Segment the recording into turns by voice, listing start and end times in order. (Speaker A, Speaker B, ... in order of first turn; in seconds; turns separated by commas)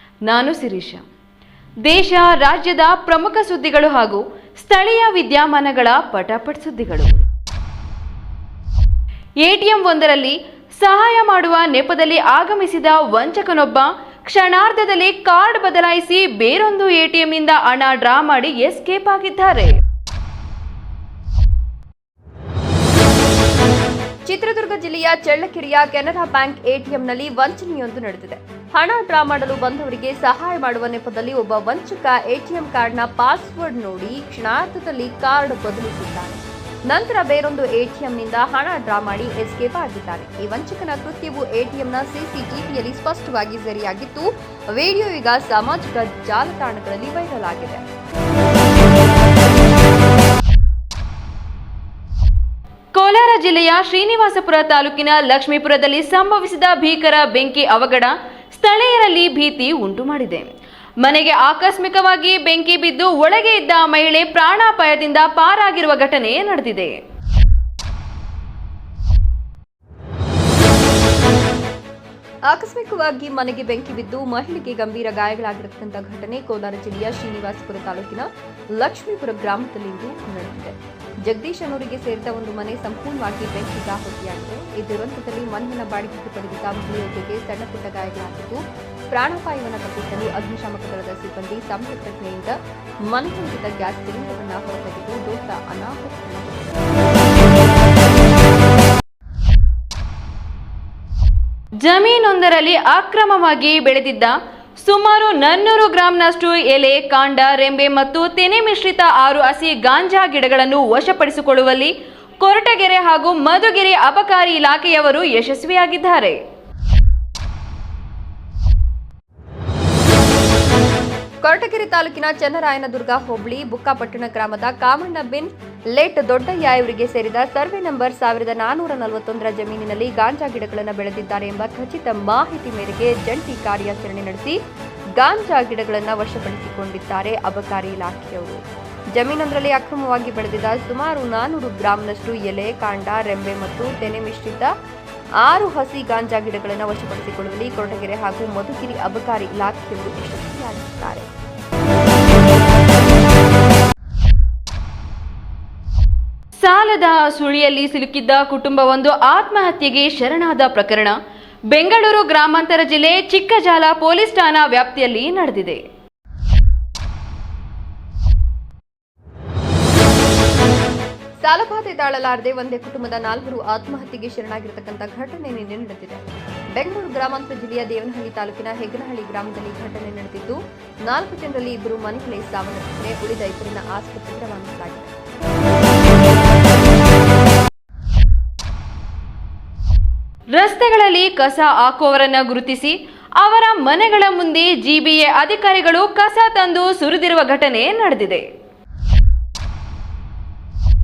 Speaker A: 0.3-1.0, Speaker A: 1.8-7.1, Speaker A: 9.4-19.7, Speaker B: 24.3-47.8, Speaker A: 53.0-60.5, Speaker A: 61.0-67.0, Speaker B: 72.5-92.6, Speaker B: 93.1-96.8, Speaker A: 101.8-116.4, Speaker B: 121.4-134.6, Speaker B: 135.2-138.6, Speaker B: 139.1-144.7, Speaker B: 145.4-151.3, Speaker A: 156.6-161.2, Speaker A: 161.7-165.8, Speaker B: 171.4-185.1, Speaker A: 190.5-198.4